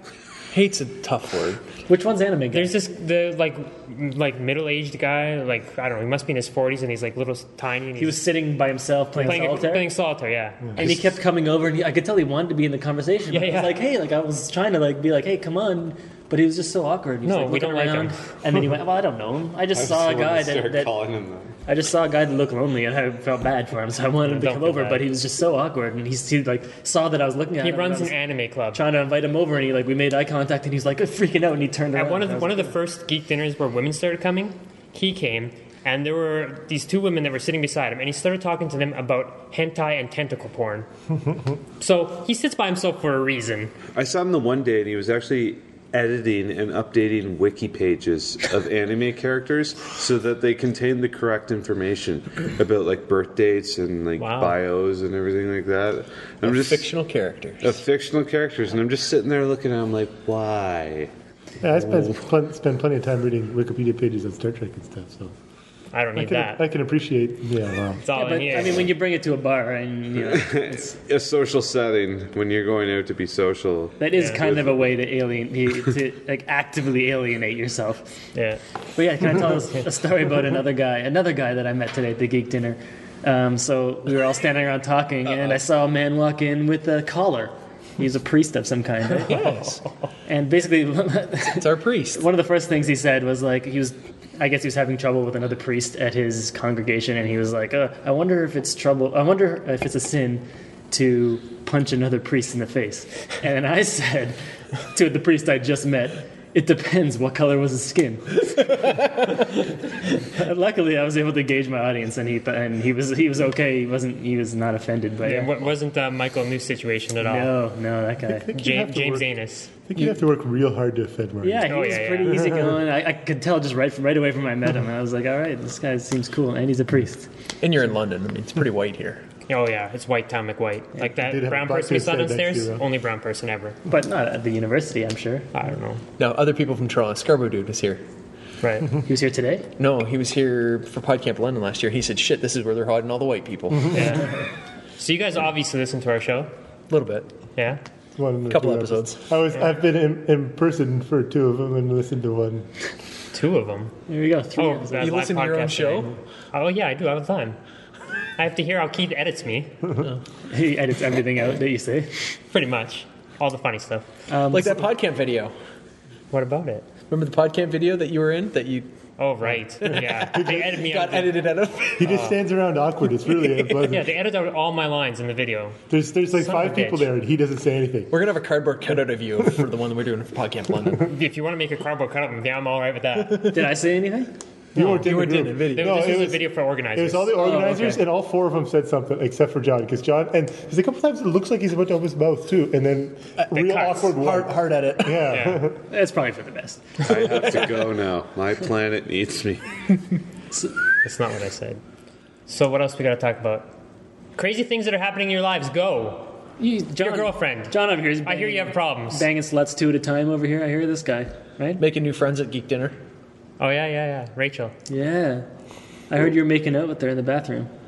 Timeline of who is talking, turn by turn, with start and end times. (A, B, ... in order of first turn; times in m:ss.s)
0:00.5-0:01.6 A
0:01.9-0:02.8 B
0:02.5-0:08.2 C
0:08.0-0:09.9 B
0:09.2-0:10.8 C
0:10.8-0:21.0 B
0:13.3-0:13.8 C
0:17.2-0:18.2 C
0:19.7-0:21.5 D
0:21.7-0:28.1 B
0:24.2-0:25.1 C
0:27.6-0:28.8 C
0:28.7-0:32.8 B
0:31.9-0:40.9 C
0:41.8-0:43.7 C
0:43.9-0:56.9 D
0:54.2-0:54.6 C
0:56.4-0:57.7 A
0:57.6-1:01.1 D
1:01.6-1:05.3 E
1:05.9-1:06.6 C
1:06.2-1:08.0 E
1:08.0-1:08.9 C
1:08.1-1:11.0 B
1:10.2-1:14.9 D
1:14.0-1:18.0 B
1:14.2-1:14.4 C
1:18.4-1:18.6 C
1:19.0-1:29.7 B
1:25.3-1:25.6 A
1:29.3-1:29.7 A
1:30.3-1:44.4 B
1:31.6-1:32.3 A
1:44.9-1:48.7 B
1:50.4-1:55.6 B
1:55.2-1:57.5 C
1:57.2-1:58.5 B
1:58.4-1:59.3 E
1:58.5-1:59.7 C
1:59.8-2:02.7 E
2:01.4-2:07.3 B
2:01.6-2:02.6 C
2:07.6-2:09.2 A
2:09.5-2:13.8 C
2:11.2-2:12.8 E
2:13.9-2:15.5 B
2:15.5-2:16.0 C
2:16.2-2:18.0 A
2:18.6-2:18.9 C
2:19.1-2:19.7 B
2:19.8-2:24.2 A
2:23.9-2:24.3 C
2:25.0-2:26.5 C
2:26.9-2:27.3 A
2:27.6-2:27.8 C
2:28.2-2:32.7 E
2:28.5-2:29.2 A
2:33.3-2:34.0 C
2:34.1-2:35.2 B
2:34.6-2:37.6 C
2:35.0-2:36.1 A
2:38.4-2:39.7 C
2:40.5-2:42.2 B
2:42.5-2:44.0 C
2:44.3-2:44.8 B
2:44.5-2:45.5 A
2:46.3-2:46.9 C
2:47.1-2:48.9 A
2:49.2-2:51.4 C
2:49.8-2:52.2 A
2:50.3-2:50.7 E
2:52.0-2:54.1 E
2:52.0-2:52.4 C
2:53.8-2:55.8 C
2:55.9-2:58.1 E
2:56.3-2:57.1 C
2:58.1-3:01.1 A
3:01.1-3:03.5 C
3:03.2-3:03.6 A
3:03.5-3:04.3 B
3:04.7-3:15.8 E
3:04.8-3:05.0 C
3:04.8-3:06.3 A
3:05.7-3:07.7 C
3:07.4-3:08.0 B
3:13.4-3:15.3 A
3:13.5-3:14.1 C
3:15.3-3:15.7 C
3:15.9-3:17.0 B
3:17.0-3:19.6 D
3:21.0-3:21.8 C
3:22.5-3:23.7 C
3:24.4-3:26.4 C
3:26.6-3:31.8 B
3:27.0-3:29.3 C
3:31.8-3:33.0 A
3:33.6-3:34.7 C
3:34.9-3:35.4 B
3:36.1-3:37.7 B